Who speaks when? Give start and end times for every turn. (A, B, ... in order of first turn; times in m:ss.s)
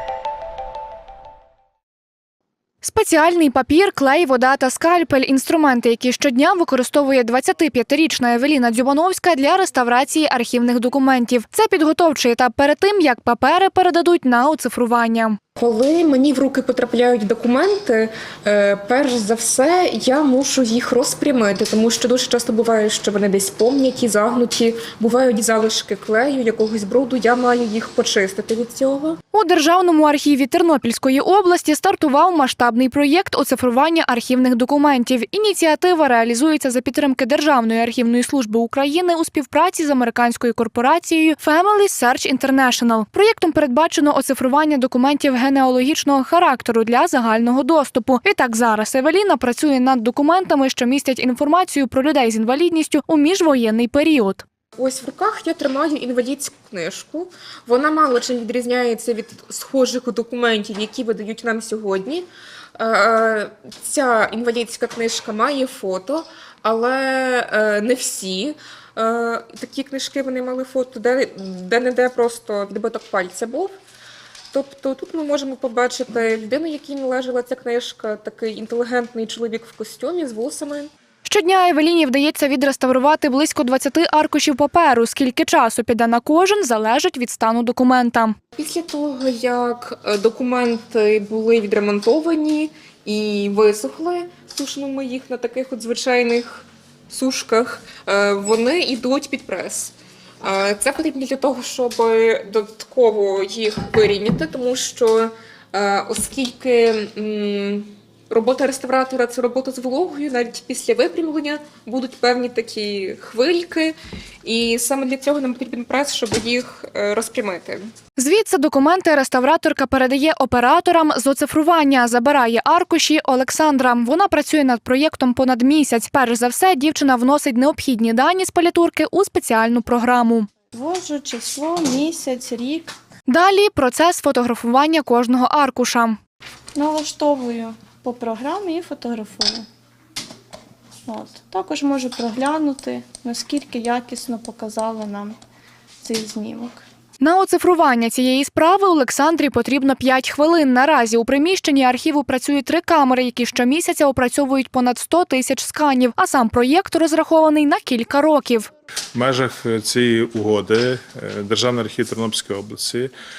0:02.8-0:15.4 A
0:15.6-0:29.2 B
0:29.3-0:54.4 A
0:54.8-1:02.2 B
1:02.8-1:13.7 B
1:14.5-1:20.9 B
1:21.2-1:28.4 A
1:28.6-1:57.8 B
1:58.2-2:10.5 A
2:10.7-2:13.0 C
2:13.3-2:16.2 A
2:16.7-2:19.7 C
2:21.1-2:25.4 C
2:26.0-2:26.8 C
2:27.2-2:38.7 A
2:39.1-2:43.1 D